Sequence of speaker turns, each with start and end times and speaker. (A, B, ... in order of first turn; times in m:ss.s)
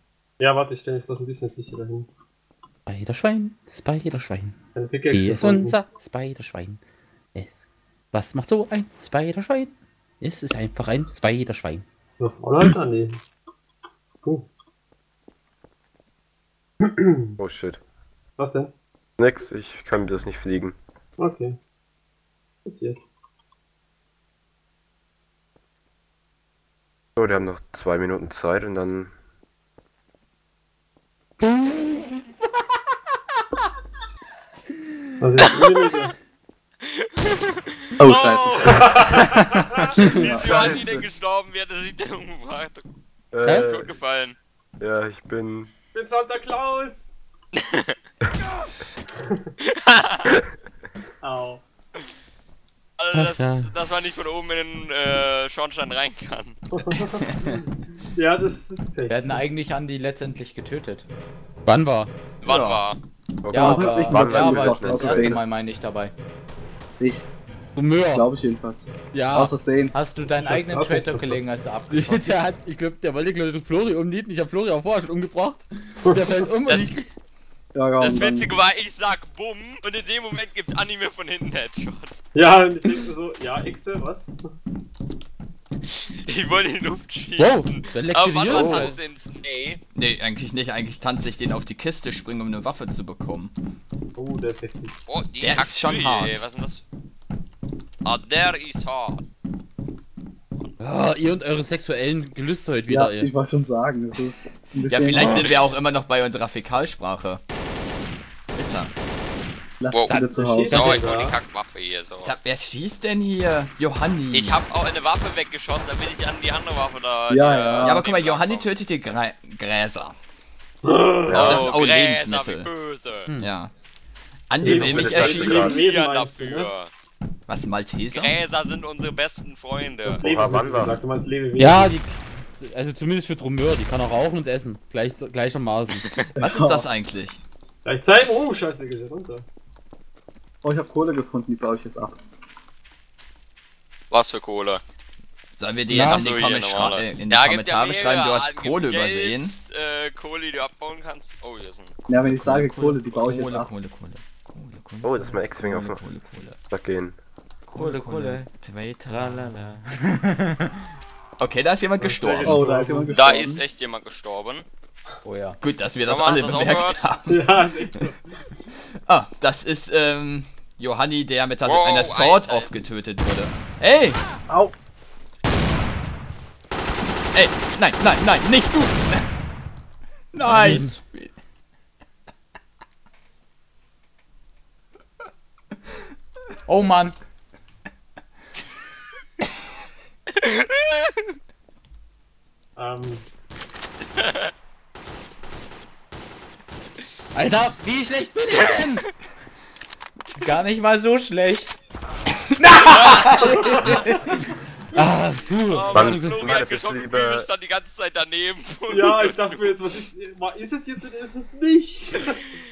0:00.4-0:02.1 A
0:02.9-0:04.6 B
0:04.8-0:05.8 A
0:05.1-0:06.8 B
0:08.1-0:11.8 B
0:12.2-0:13.2 A
0:16.8-0:17.3 A
0:17.4-0:17.8 C
0:18.4-0:18.7 A
0:19.2-0:20.8 C
0:21.2-0:21.6 A
0:22.6-0:23.0 A
0:27.2-0:29.1 C
0:35.2-0:36.1 A
0:35.5-0:36.0 D
0:36.8-0:39.3 D
0:38.0-0:38.9 E
0:38.7-0:40.7 A
0:40.1-0:42.8 D
0:40.2-0:41.1 E
0:43.3-0:44.0 C
0:43.5-0:44.4 D
0:44.8-0:45.7 C
0:45.9-0:47.2 A
0:47.6-0:48.0 D
0:49.7-0:50.4 D
0:51.2-0:51.6 A
0:53.0-0:56.6 D
0:53.2-0:53.7 B
0:56.7-0:59.4 A
0:57.3-0:57.5 F
0:59.1-1:01.1 G
1:01.7-1:02.1 B
1:02.4-1:03.0 D
1:02.4-1:02.8 F
1:03.4-1:05.4 C
1:03.5-1:06.1 G
1:03.5-1:05.4 E
1:07.0-1:07.3 E
1:07.8-1:08.3 B
1:08.1-1:10.0 E
1:09.1-1:09.5 B
1:09.9-1:12.4 G
1:10.3-1:11.4 A
1:11.9-1:17.1 B
1:16.7-1:16.9 D
1:17.7-1:18.5 E
1:18.0-1:22.2 D
1:22.4-1:24.4 A
1:26.2-1:29.8 D
1:27.4-1:29.0 B
1:28.5-1:28.9 F
1:30.0-1:33.5 F
1:34.2-1:35.0 A
1:35.1-1:36.8 D
1:35.4-1:36.4 F
1:38.0-1:39.2 D
1:40.8-1:43.3 B
1:42.9-1:45.5 E
1:44.9-1:47.4 F
1:45.2-1:45.6 D
1:48.5-1:48.9 F
1:49.8-1:50.8 E
1:49.9-1:52.3 D
1:50.1-1:51.4 A
1:52.2-1:54.6 F
1:54.3-1:58.7 D
1:57.3-1:58.0 E
1:57.8-2:00.2 F
2:00.8-2:01.5 A
2:01.3-2:01.6 C
2:01.3-2:02.7 F
2:01.3-2:03.3 D
2:03.4-2:03.7 F
2:04.5-2:05.7 F
2:04.6-2:06.7 A
2:04.6-2:05.8 C
2:04.8-2:06.9 D
2:07.5-2:08.3 F
2:08.1-2:10.2 D
2:10.1-2:12.0 A
2:10.2-2:11.0 C
2:11.6-2:16.0 B
2:16.4-2:16.8 E
2:16.4-2:17.4 F
2:17.8-2:19.4 A
2:20.6-2:22.2 E
2:24.1-2:24.8 D
2:25.6-2:29.6 F
2:25.9-2:26.2 B
2:26.0-2:32.0 D
2:32.1-2:33.7 E
2:32.3-2:36.6 F
2:35.0-2:36.0 C
2:36.7-2:37.2 C
2:37.7-2:39.6 F
2:37.8-2:38.5 G
2:39.1-2:40.8 G
2:41.4-2:42.7 F
2:42.0-2:43.5 A
2:42.2-2:43.6 E
2:43.1-2:44.6 D
2:45.2-2:45.6 G
2:45.6-2:47.7 F
2:46.1-2:47.0 D
2:47.3-2:48.2 A
2:49.0-2:54.2 F
2:51.6-2:52.8 D
2:57.3-2:59.3 F
3:00.3-3:01.4 F
3:00.4-3:01.0 G
3:00.4-3:00.9 B
3:06.7-3:07.2 G
3:10.4-3:11.2 D
3:12.8-3:13.3 A
3:14.2-3:14.5 D
3:17.4-3:19.1 B
3:20.4-3:21.8 G
3:22.6-3:23.6 G
3:22.9-3:24.0 D
3:23.4-3:24.3 A
3:24.9-3:26.5 B
3:25.7-3:29.8 D
3:25.9-3:27.5 C
3:28.9-3:32.4 A